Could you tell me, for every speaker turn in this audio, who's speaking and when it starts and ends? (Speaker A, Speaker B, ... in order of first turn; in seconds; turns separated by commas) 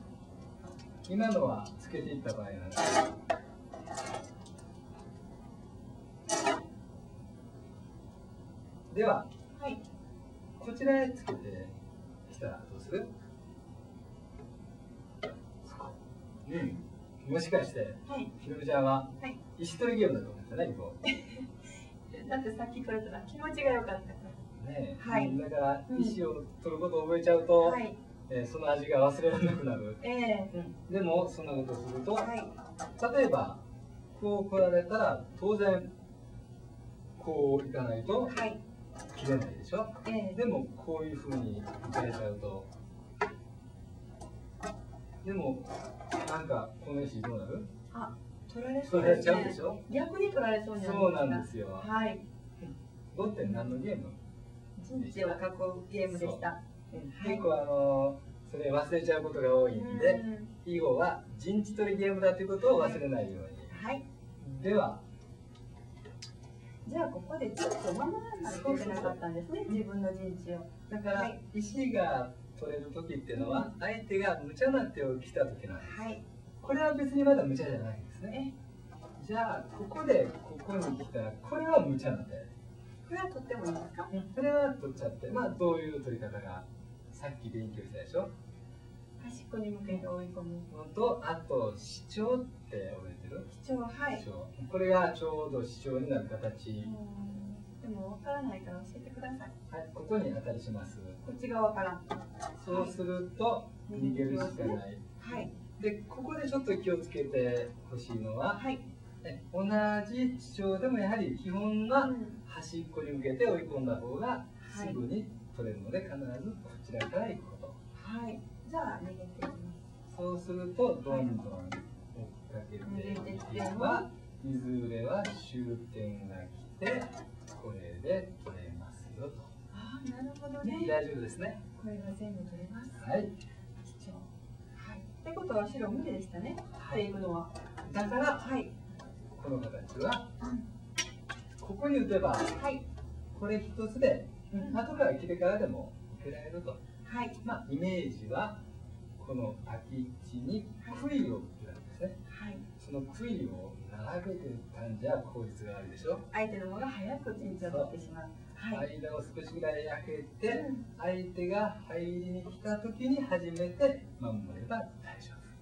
Speaker A: 1.0-3.0, Speaker A: 8.9-9.3, Speaker B: 9.5-9.8, Speaker A: 10.6-11.7, Speaker A: 12.3-13.1, Speaker A: 15.6-21.0, Speaker B: 18.0-18.3, Speaker B: 21.1-21.5, Speaker B: 22.1-24.4, Speaker A: 24.6-32.3, Speaker B: 25.0-26.2, Speaker B: 27.6-28.0, Speaker B: 30.0-30.5, Speaker B: 32.2-32.5, Speaker A: 33.0-33.6, Speaker A: 34.1-35.9, Speaker A: 37.2-38.3, Speaker B: 38.2-38.6, Speaker A: 39.1-42.7, Speaker B: 40.0-40.4, Speaker A: 45.2-47.7, Speaker B: 47.9-52.2, Speaker A: 48.8-49.8, Speaker A: 50.7-51.9, Speaker A: 53.1-54.1, Speaker B: 54.8-57.5, Speaker A: 54.9-55.4, Speaker A: 56.1-56.4, Speaker A: 57.0-63.7, Speaker B: 59.7-60.5, Speaker B: 63.7-64.0, Speaker A: 64.4-65.0, Speaker B: 66.8-71.4, Speaker A: 68.4-69.2, Speaker A: 70.9-76.1, Speaker B: 73.3-73.7, Speaker B: 75.8-76.2, Speaker A: 76.6-78.4, Speaker A: 79.2-82.5, Speaker B: 83.0-84.1, Speaker A: 84.1-88.3, Speaker B: 89.2-90.7, Speaker A: 90.7-93.5, Speaker B: 93.5-94.2, Speaker A: 94.1-96.9, Speaker B: 96.8-99.5, Speaker A: 99.7-101.2, Speaker B: 101.2-102.1, Speaker A: 102.6-108.6, Speaker B: 102.7-102.9, Speaker B: 103.9-105.5, Speaker B: 108.5-108.8, Speaker A: 109.2-117.8, Speaker B: 112.0-112.4, Speaker B: 114.6-115.0, Speaker B: 117.9-119.8, Speaker A: 120.1-129.5, Speaker B: 122.8-124.1, Speaker B: 129.7-130.9, Speaker A: 130.6-131.6, Speaker B: 131.8-133.1, Speaker A: 133.0-133.3, Speaker B: 133.8-137.5, Speaker A: 136.8-137.0, Speaker A: 137.8-138.4, Speaker B: 138.2-138.7, Speaker A: 139.3-140.3, Speaker B: 140.4-140.6, Speaker A: 141.6-142.6, Speaker B: 142.6-142.8, Speaker A: 143.3-146.8, Speaker B: 144.5-144.8, Speaker B: 147.0-147.4, Speaker A: 147.4-148.6, Speaker A: 149.2-152.2, Speaker B: 152.3-152.6, Speaker A: 152.8-156.3, Speaker B: 156.3-158.8, Speaker A: 157.6-157.9, Speaker A: 158.7-165.4, Speaker B: 160.4-160.8